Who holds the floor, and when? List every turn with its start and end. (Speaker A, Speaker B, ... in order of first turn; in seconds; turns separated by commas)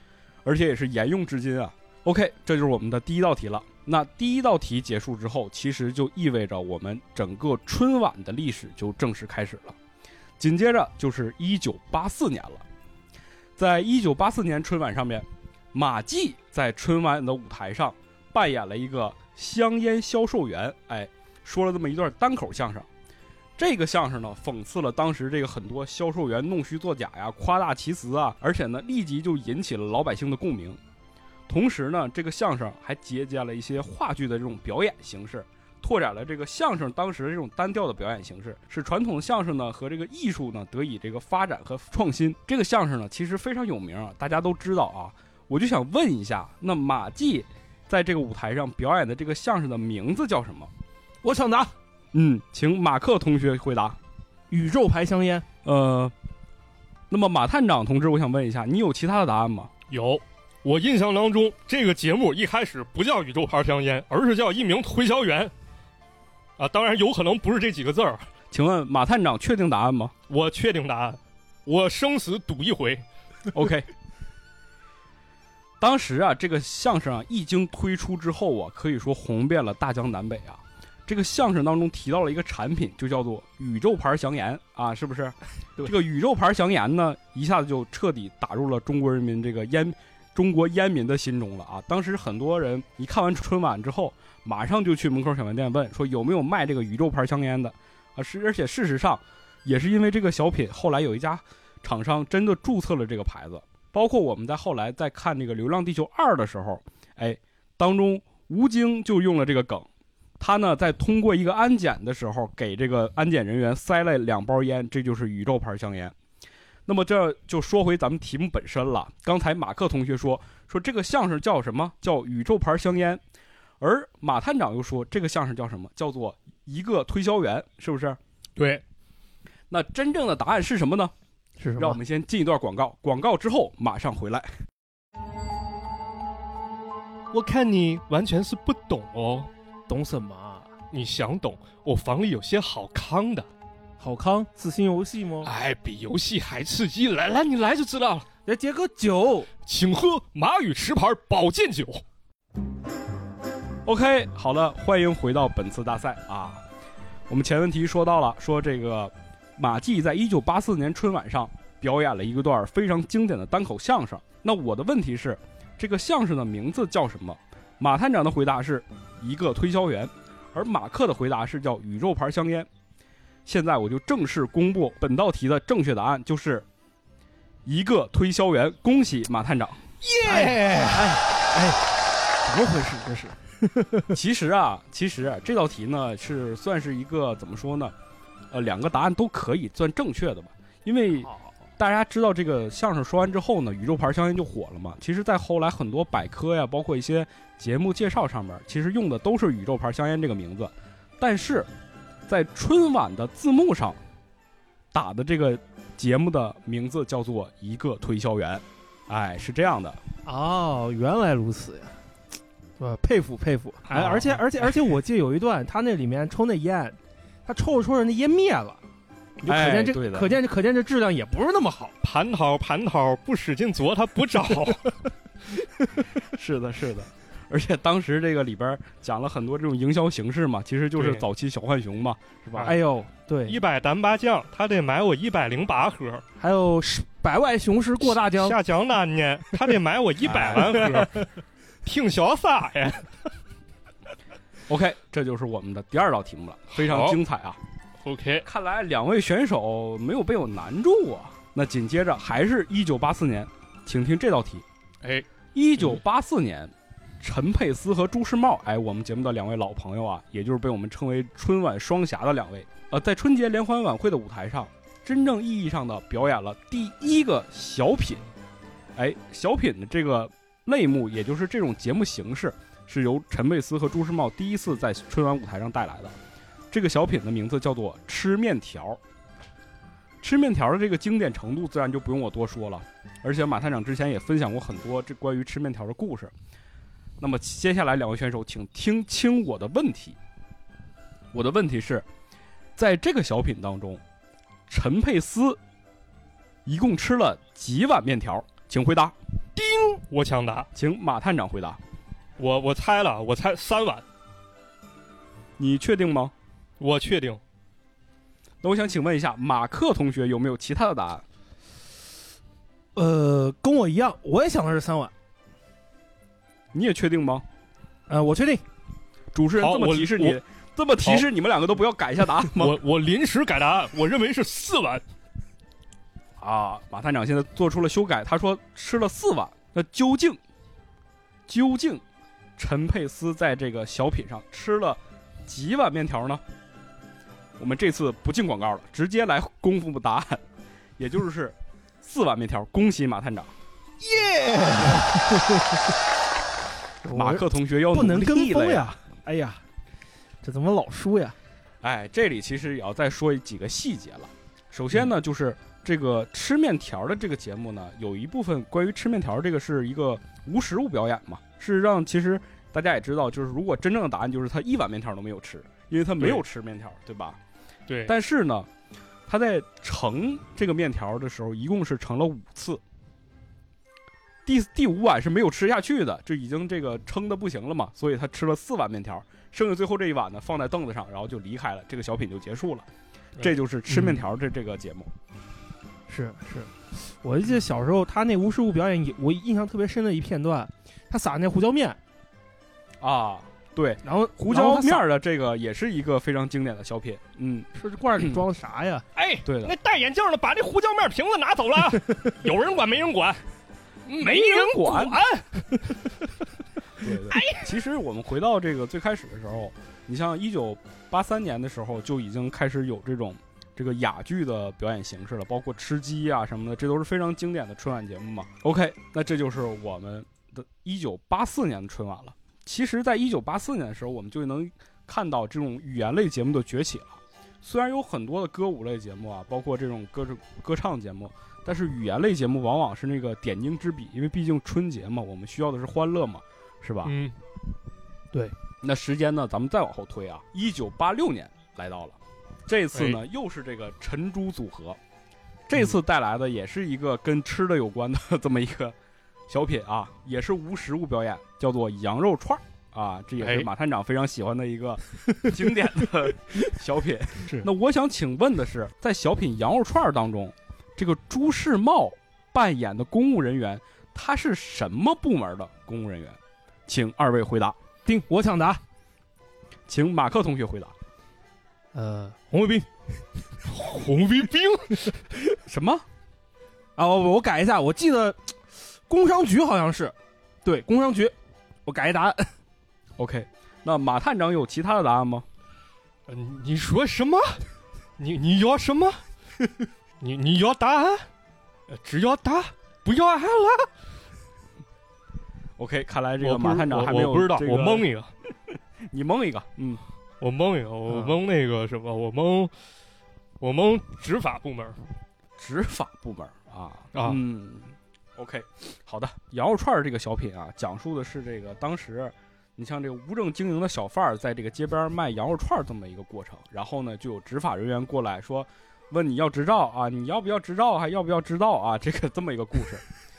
Speaker A: 0.4-9.8, Speaker A: 10.4-12.7, Speaker A: 13.6-22.9, Speaker A: 23.6-30.8, Speaker A: 31.5-50.7, Speaker B: 51.2-51.7, Speaker A: 52.1-54.0, Speaker B: 54.5-55.5, Speaker A: 55.6-56.1, Speaker A: 57.1-59.7, Speaker C: 59.9-65.5, Speaker C: 66.6-68.3, Speaker A: 68.5-70.1, Speaker C: 70.3-73.0, Speaker A: 73.5-73.9, Speaker A: 75.8-109.9, Speaker A: 110.4-116.2, Speaker A: 116.9-123.2, Speaker A: 123.8-128.2, Speaker C: 128.6-128.8, Speaker A: 129.7-131.1, Speaker B: 131.6-132.0, Speaker A: 131.8-134.5, Speaker C: 137.3-139.5, Speaker B: 139.9-140.7, Speaker C: 140.9-143.5, Speaker B: 144.0-145.5, Speaker C: 145.4-148.3, Speaker B: 148.5-149.5, Speaker C: 149.7-152.0, Speaker A: 153.9-156.6, Speaker A: 157.3-172.7, Speaker A: 173.5-176.7, Speaker A: 177.7-179.8, Speaker C: 180.2-180.9, Speaker B: 180.2-181.8, Speaker B: 182.4-184.1, Speaker A: 184.1-187.9, Speaker A: 188.5-201.7, Speaker B: 191.2-191.5, Speaker A: 202.3-204.0, Speaker A: 204.9-210.0, Speaker B: 210.3-212.0, Speaker B: 212.8-218.8, Speaker C: 213.9-214.4, Speaker B: 219.4-221.9, Speaker A: 219.4-220.4, Speaker C: 222.0-225.0, Speaker A: 226.3-232.7, Speaker C: 231.0-231.2, Speaker B: 232.6-233.6, Speaker C: 233.5-236.2, Speaker B: 236.4-238.6, Speaker C: 238.0-241.3, Speaker A: 240.2-241.0, Speaker C: 241.8-243.1, Speaker A: 244.7-247.6, Speaker C: 246.8-247.2, Speaker C: 248.0-248.5, Speaker A: 248.4-254.7, Speaker A: 255.6-268.2, Speaker A: 269.0-276.2, Speaker A: 276.7-279.0, Speaker A: 280.2-286.3, Speaker A: 287.2-290.2, Speaker A: 291.3-292.1, Speaker A: 292.8-294.0, Speaker A: 294.7-295.6, Speaker A: 296.6-299.2, Speaker C: 299.6-300.7, Speaker A: 300.8-301.8, Speaker C: 302.4-304.0, Speaker A: 305.6-306.3, Speaker C: 306.8-307.4, Speaker A: 308.6-311.2, Speaker B: 313.0-315.1, Speaker A: 316.7-317.4, Speaker B: 318.1-318.6, Speaker A: 319.3-322.8, Speaker C: 319.6-320.4, Speaker C: 322.6-325.0, Speaker A: 326.4-330.4, Speaker A: 331.5-332.0, Speaker A: 332.6-336.4, Speaker A: 337.6-340.4, Speaker A: 341.0-343.5, Speaker B: 344.0-345.8, Speaker B: 347.0-349.6, Speaker A: 347.1-349.0, Speaker B: 350.4-351.4, Speaker A: 351.8-367.4, Speaker C: 367.9-368.1, Speaker A: 368.1-368.7, Speaker A: 369.3-372.8, Speaker A: 374.5-382.9, Speaker A: 383.4-385.1, Speaker B: 383.9-384.2, Speaker B: 386.1-392.0, Speaker A: 393.0-397.7, Speaker B: 394.0-395.1, Speaker B: 397.8-399.1, Speaker C: 399.2-403.4, Speaker A: 399.4-399.8, Speaker C: 404.1-405.9, Speaker A: 404.2-405.2, Speaker A: 407.0-437.1, Speaker C: 407.3-407.6, Speaker C: 437.1-437.4, Speaker A: 438.8-445.0, Speaker C: 442.9-443.2, Speaker A: 445.7-449.0, Speaker A: 449.5-467.8, Speaker C: 453.4-453.7, Speaker B: 468.1-468.8, Speaker A: 469.9-470.9, Speaker B: 471.9-472.9, Speaker C: 473.7-475.0, Speaker A: 475.7-476.1, Speaker B: 477.0-478.5, Speaker B: 479.1-481.3, Speaker B: 481.9-482.5, Speaker A: 483.2-485.5, Speaker C: 486.3-487.6, Speaker C: 488.2-489.2, Speaker C: 490.2-491.3, Speaker C: 491.9-493.9, Speaker A: 495.8-498.1, Speaker C: 496.4-498.3, Speaker A: 499.1-500.0, Speaker C: 500.4-502.7, Speaker C: 503.6-505.0, Speaker A: 505.6-523.0, Speaker C: 507.1-507.4